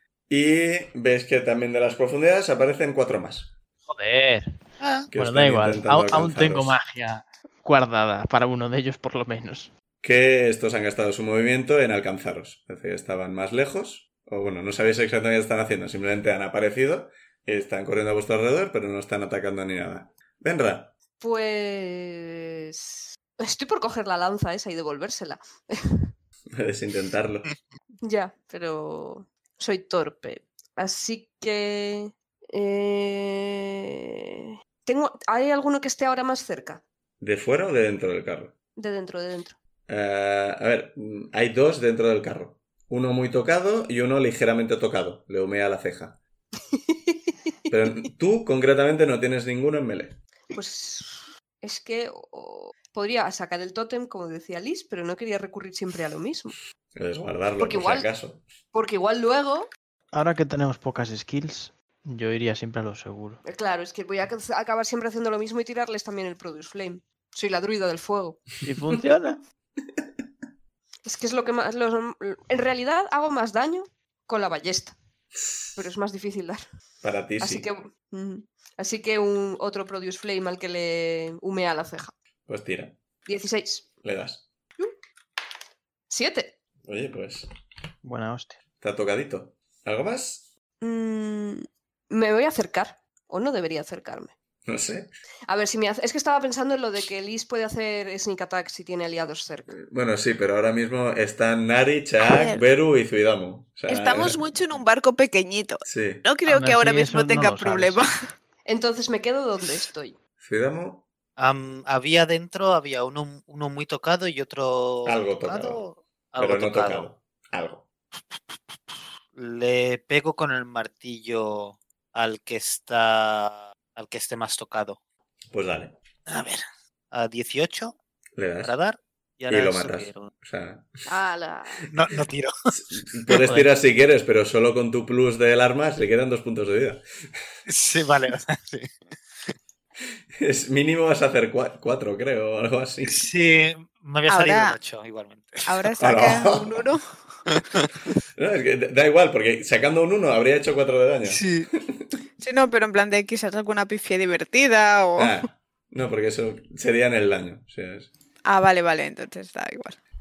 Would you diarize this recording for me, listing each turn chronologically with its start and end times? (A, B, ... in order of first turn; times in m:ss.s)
0:00.3-0:03.5 A
0:03.9-0:04.6 B
0:04.8-0:05.1 C
0:05.1-0:06.8 A
0:05.1-0:09.7 B
0:10.0-0:20.9 A
0:21.2-0:26.1 D
0:26.6-0:27.5 A
0:28.0-0:36.8 D
0:37.2-0:38.5 A
0:38.8-0:39.6 D
0:39.9-0:46.2 A
0:46.7-0:47.3 D
0:47.7-0:50.2 A
0:50.5-0:56.6 D
0:57.0-0:58.4 A
0:57.6-0:58.1 D
0:58.7-0:59.7 D
1:00.1-1:03.4 B
1:03.4-1:08.5 D
1:08.6-1:09.4 B
1:11.0-1:15.0 D
1:15.8-1:16.6 D
1:17.0-1:17.7 A
1:17.4-1:22.1 D
1:22.5-1:23.0 A
1:23.3-1:23.9 D
1:24.0-1:24.4 A
1:26.1-1:26.6 D
1:26.8-1:27.5 A
1:28.0-1:28.6 B
1:28.8-1:30.5 A
1:30.8-1:34.3 D
1:34.7-1:35.1 A
1:35.5-1:39.8 D
1:39.8-1:44.4 A
1:42.2-1:42.6 E
1:43.9-1:48.1 E
1:45.8-1:46.2 A
1:46.5-1:48.0 B
1:48.7-1:50.2 D
1:50.4-1:51.0 A
1:51.4-1:57.1 C
1:55.1-1:55.8 A
1:56.4-1:57.8 A
1:58.3-2:05.0 C
2:05.5-2:06.0 A
2:06.3-2:08.0 C
2:08.4-2:08.8 A
2:08.6-2:10.3 C
2:09.5-2:11.0 A
2:11.1-2:11.9 D
2:11.9-2:12.5 C
2:12.8-2:17.0 A
2:17.7-2:19.0 C
2:20.4-2:23.2 A
2:23.0-2:25.9 C
2:24.3-2:24.8 E
2:25.7-2:27.1 E
2:26.0-2:26.8 A
2:27.5-2:27.9 C
2:28.4-2:32.1 A
2:31.3-2:31.7 C
2:32.4-2:35.4 E
2:35.2-2:38.1 A
2:38.5-2:40.0 E